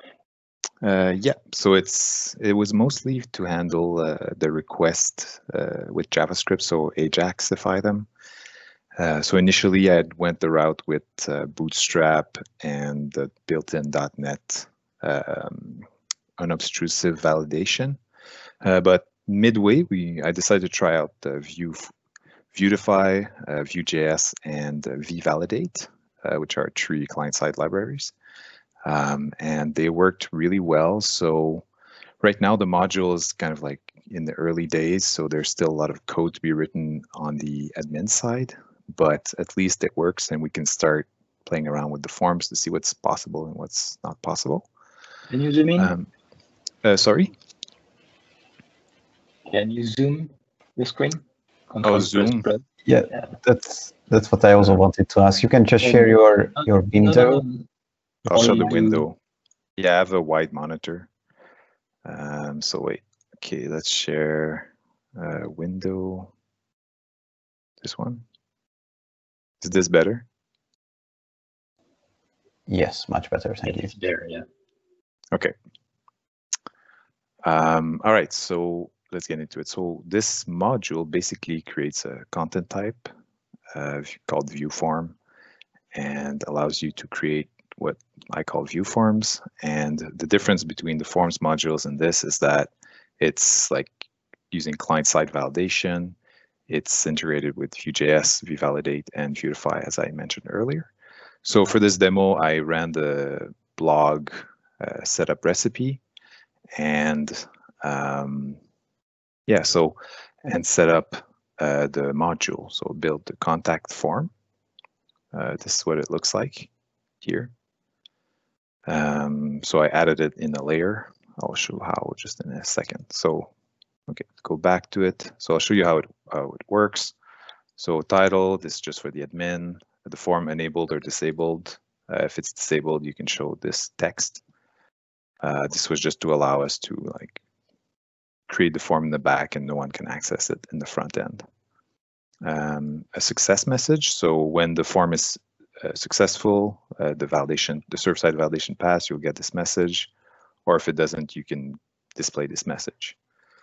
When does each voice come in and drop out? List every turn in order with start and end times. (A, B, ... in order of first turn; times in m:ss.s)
0:00.8-0:08.1 A
0:09.0-0:15.8 A
0:16.4-0:18.0 A
0:18.6-0:21.9 A
0:22.5-0:28.1 A
0:28.9-0:31.6 A
0:32.2-0:44.7 A
0:45.3-0:45.9 B
0:45.8-0:46.1 A
0:46.8-0:47.3 A
0:49.5-0:53.3 B
0:51.8-0:52.5 A
0:52.8-0:57.4 C
0:55.8-0:57.7 B
0:58.3-0:59.2 A
0:58.3-0:59.1 B
0:59.8-1:01.1 A
1:02.1-1:06.3 A
1:07.8-1:08.2 A
1:09.6-1:10.3 A
1:12.7-1:13.9 C
1:13.7-1:14.5 B
1:17.4-1:23.1 A
1:23.7-1:25.2 A
1:25.9-1:34.0 A
1:34.5-1:36.2 A
1:36.7-1:40.9 A
1:41.4-1:46.0 A
1:46.8-1:48.6 A
1:49.5-1:54.3 A
1:55.3-1:56.7 A
1:57.2-1:57.5 A
1:58.9-2:03.5 A
2:04.1-2:07.2 A
2:07.8-2:14.4 A
2:15.4-2:17.4 A
2:18.5-2:21.4 A
2:22.4-2:30.1 A
2:30.7-2:33.2 A